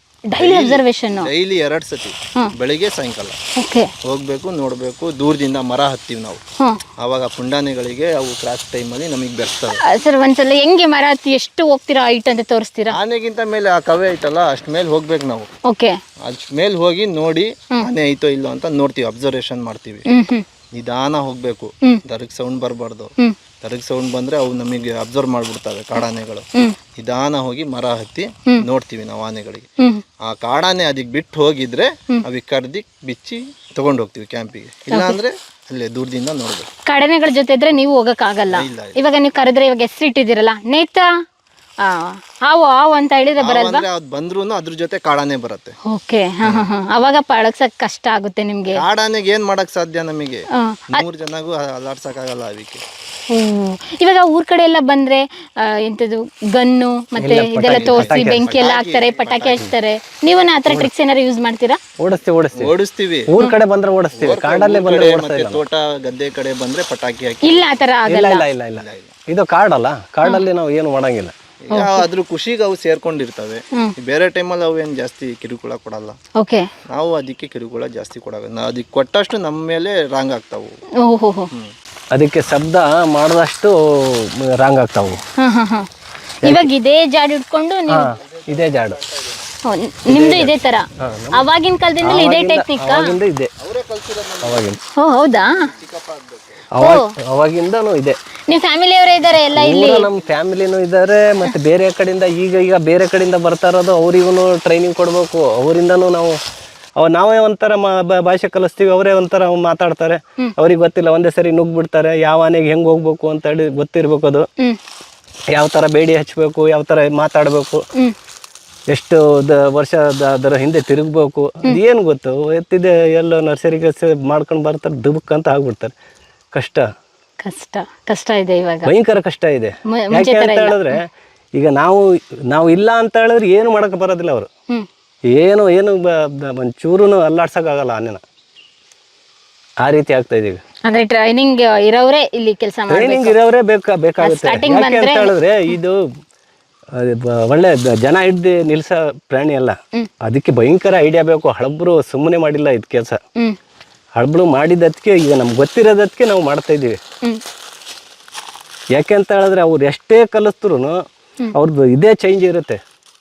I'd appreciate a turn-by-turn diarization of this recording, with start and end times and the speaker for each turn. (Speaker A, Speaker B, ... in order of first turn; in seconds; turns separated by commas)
Speaker A: 0.3-1.3, Speaker B: 0.3-3.4, Speaker A: 3.6-3.9, Speaker B: 4.0-6.4, Speaker B: 7.0-9.8, Speaker A: 9.8-12.9, Speaker B: 12.9-15.5, Speaker A: 15.6-15.9, Speaker B: 16.2-20.1, Speaker A: 20.1-20.4, Speaker B: 20.7-23.1, Speaker B: 23.6-26.4, Speaker B: 26.9-29.6, Speaker B: 30.2-36.7, Speaker A: 36.9-41.1, Speaker B: 38.5-39.0, Speaker A: 41.8-43.8, Speaker B: 43.4-45.7, Speaker A: 45.9-48.8, Speaker B: 48.7-52.8, Speaker A: 50.5-51.0, Speaker A: 53.3-61.8, Speaker C: 57.2-58.5, Speaker B: 57.6-59.6, Speaker C: 62.0-62.7, Speaker B: 62.5-63.3, Speaker C: 63.3-65.6, Speaker B: 64.1-67.8, Speaker A: 67.4-68.4, Speaker C: 68.0-71.3, Speaker B: 68.7-69.1, Speaker B: 71.7-76.2, Speaker A: 71.7-72.0, Speaker A: 76.4-76.7, Speaker B: 76.9-80.8, Speaker A: 81.0-81.5, Speaker C: 82.1-85.2, Speaker A: 85.4-85.9, Speaker C: 86.4-86.7, Speaker A: 86.4-88.1, Speaker C: 87.9-89.0, Speaker B: 88.2-89.4, Speaker A: 89.7-93.2, Speaker C: 90.1-91.5, Speaker C: 92.0-93.5, Speaker B: 93.6-94.8, Speaker C: 94.4-94.8, Speaker A: 95.0-95.5, Speaker B: 95.3-96.6, Speaker C: 96.7-98.2, Speaker A: 98.5-100.1, Speaker C: 99.5-106.4, Speaker C: 107.0-114.5, Speaker C: 115.5-117.8, Speaker C: 118.9-125.9, Speaker C: 126.5-126.8, Speaker A: 127.4-128.9, Speaker C: 128.8-131.0, Speaker A: 129.9-131.0, Speaker C: 131.6-134.5, Speaker C: 135.3-138.2, Speaker C: 139.8-140.6, Speaker A: 140.9-143.3, Speaker C: 142.9-146.0, Speaker A: 144.2-145.7, Speaker C: 146.9-153.2, Speaker C: 154.2-157.0, Speaker C: 158.9-160.9, Speaker C: 161.5-162.8